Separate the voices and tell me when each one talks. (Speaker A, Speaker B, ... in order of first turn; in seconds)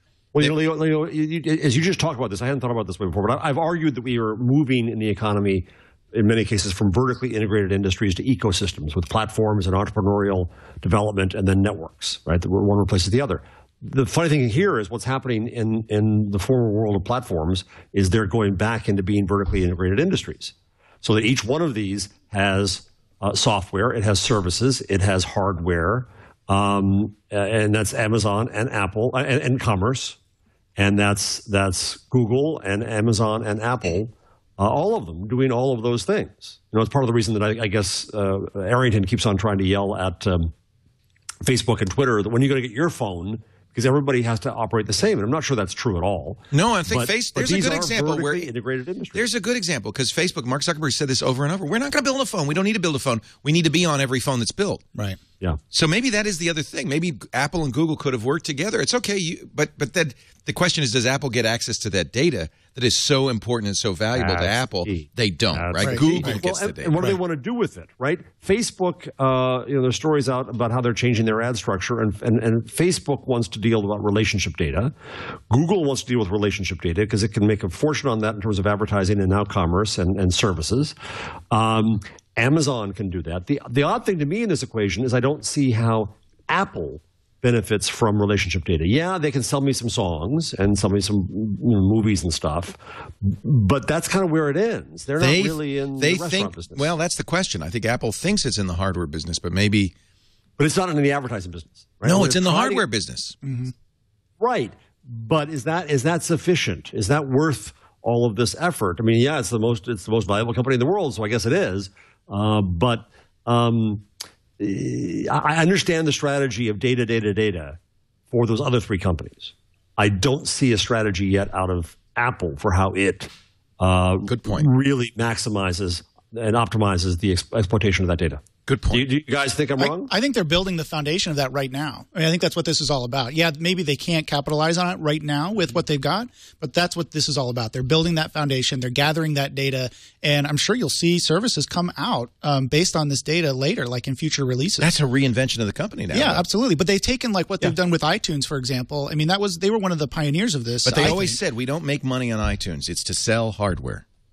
Speaker A: 0.3-30.2, 30.8-40.5, 41.4-49.2, 64.2-74.9, 75.5-81.0, 81.5-96.9, 100.6-102.8, 104.4-114.1, 114.6-117.8, 118.3-130.1
Speaker B: 46.5-48.5, 49.1-54.8, 55.7-67.0, 95.2-99.9, 102.0-103.4, 124.3-124.7, 128.7-129.1, 144.8-146.4, 150.8-154.1
Speaker C: 65.8-66.3, 103.4-103.7, 129.8-144.9, 146.1-151.4